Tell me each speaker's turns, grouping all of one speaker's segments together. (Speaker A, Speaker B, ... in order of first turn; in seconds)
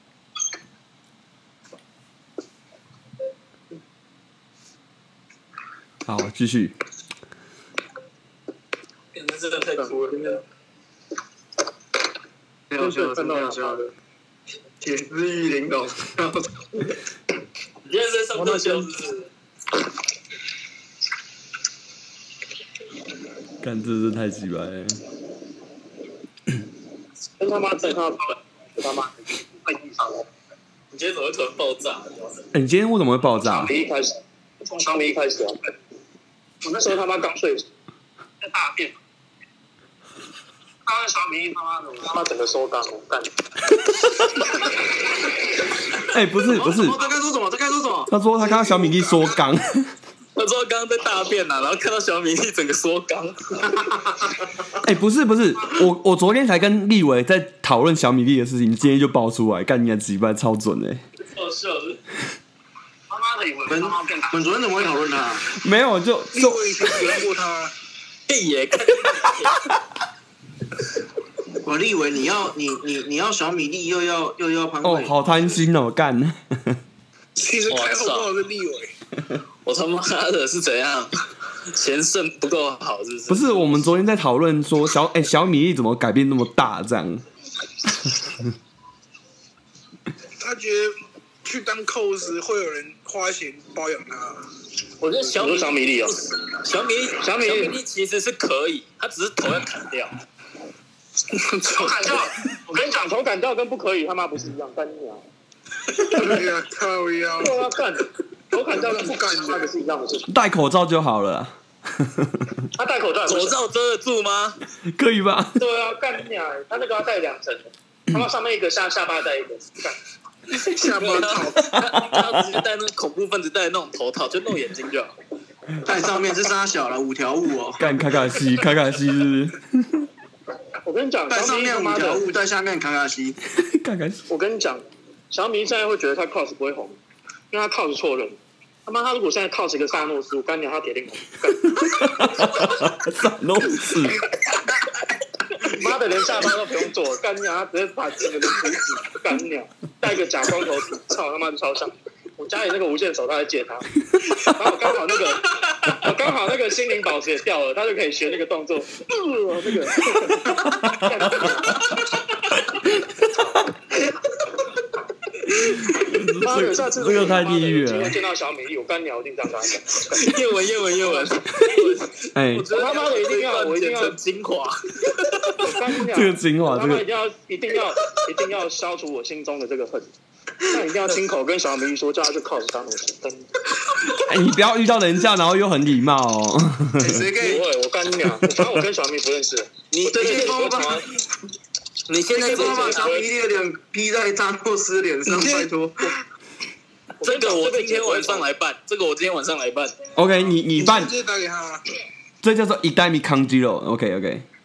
Speaker A: 6.0-6.7, 23.6-25.0, 32.5-33.7, 46.1-47.0, 48.1-49.9, 54.8-61.0, 65.5-66.6, 74.8-76.8, 83.3-87.2, 110.3-112.5, 114.8-115.6, 121.7-122.4, 127.8-130.1, 133.6-134.2, 141.8-144.2, 165.7-168.2, 172.3-172.7, 176.1-177.0, 184.2-187.2, 200.2-201.1, 202.4-204.4
Speaker B: 9.1-10.4, 17.8-19.3, 30.9-32.4, 50.4-53.9, 61.3-62.0, 68.3-69.6, 77.7-78.3, 79.6-83.8, 95.2-100.2, 113.2-114.6, 120.8-125.2, 170.1-175.7, 189.9-191.1, 192.1-193.2, 197.2-200.0
Speaker C: 9.7-10.4, 12.8-13.9, 18.3-18.9, 27.4-30.3, 33.4-35.7, 36.6-37.7, 38.4-39.0, 40.9-43.3, 63.1-64.4, 95.0-96.3, 97.2-97.8, 101.6-105.2, 106.1-106.4, 107.4-110.3, 112.7-113.6, 115.6-120.0, 130.8-132.3, 134.3-137.0, 137.5-142.4, 145.6-161.9, 166.3-170.4, 171.0-171.7, 172.7-174.2, 175.6-180.1, 180.6-183.4, 187.4-191.0, 192.3-193.2, 197.2-198.5
Speaker D: 12.7-13.8, 14.8-16.6, 46.5-48.1, 53.6-54.2, 63.7-65.5, 71.6-75.6, 125.8-128.0, 131.3-133.4, 187.0-187.7, 190.0-191.0, 192.1-196.1
Speaker E: 48.6-49.0, 66.3-67.7, 77.3-78.9, 90.4-94.5, 106.0-107.6, 108.7-109.7, 120.5-121.7, 195.2-195.7, 200.8-201.8